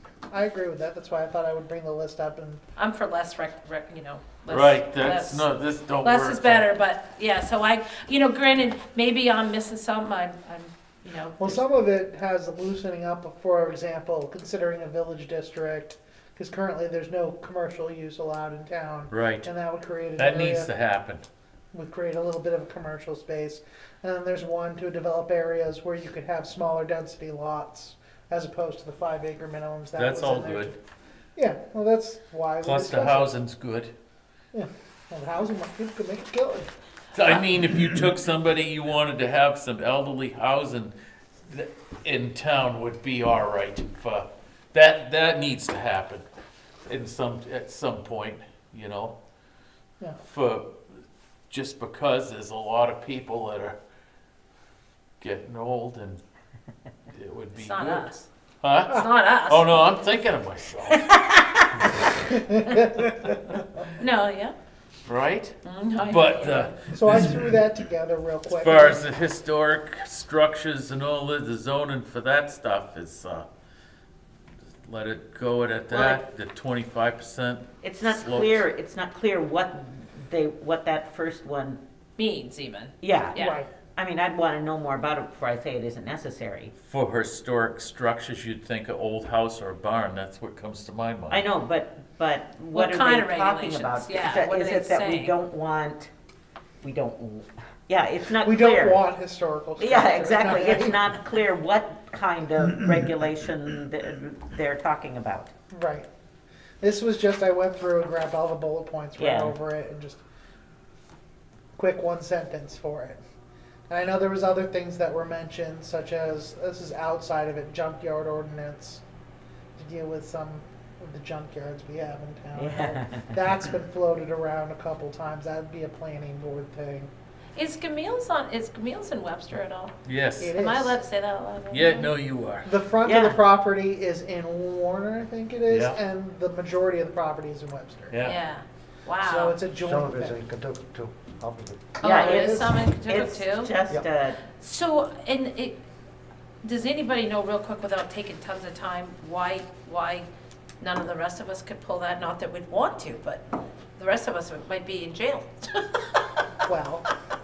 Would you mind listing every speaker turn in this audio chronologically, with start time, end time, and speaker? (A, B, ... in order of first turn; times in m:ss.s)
0:00.3-0:02.6 A
0:02.8-0:05.5 B
0:04.5-0:06.7 C
0:06.0-0:11.6 B
0:11.4-0:20.7 A
0:19.1-0:19.5 C
0:20.2-0:21.2 C
0:21.7-0:30.8 A
0:30.0-0:30.7 C
0:31.4-0:33.3 A
0:32.6-0:33.9 C
0:34.5-0:36.7 A
0:37.1-0:41.0 C
0:41.5-0:46.2 C
0:46.8-0:49.2 C
0:50.2-0:53.8 C
0:55.2-0:56.2 C
0:57.1-1:01.1 C
0:57.6-0:58.3 B
0:58.9-0:59.7 B
1:00.9-1:01.7 B
1:02.3-1:03.2 A
1:04.0-1:04.6 B
1:05.1-1:07.3 C
1:05.6-1:06.7 B
1:06.9-1:09.0 A
1:08.5-1:13.5 C
1:14.8-1:18.6 C
1:15.9-1:16.2 D
1:17.8-1:21.8 D
1:22.2-1:23.6 B
1:23.0-1:23.4 D
1:23.4-1:23.7 A
1:24.0-1:26.7 D
1:26.8-1:31.4 C
1:31.3-1:36.1 D
1:32.7-1:35.4 B
1:36.8-1:39.1 D
1:38.4-1:41.0 A
1:39.8-1:45.5 D
1:45.7-1:46.1 A
1:46.8-1:50.2 A
1:49.2-1:49.6 D
1:51.8-1:53.2 A
1:53.9-1:59.0 A
1:59.8-2:07.1 A
2:02.6-2:03.3 D
2:07.6-2:10.0 B
2:10.1-2:10.5 C
2:10.4-2:11.0 A
2:10.5-2:12.1 B
2:11.7-2:12.7 C
2:12.6-2:18.2 A
2:13.0-2:13.4 D
2:15.7-2:16.0 C
2:18.1-2:18.4 C
2:18.2-2:19.6 B
2:19.2-2:20.4 A
2:19.8-2:21.9 E
2:22.0-2:22.8 A
2:22.0-2:23.8 B
2:22.0-2:24.4 D
2:24.6-2:25.8 B
2:26.6-2:30.3 B
2:30.8-2:36.2 B
2:36.7-2:37.1 A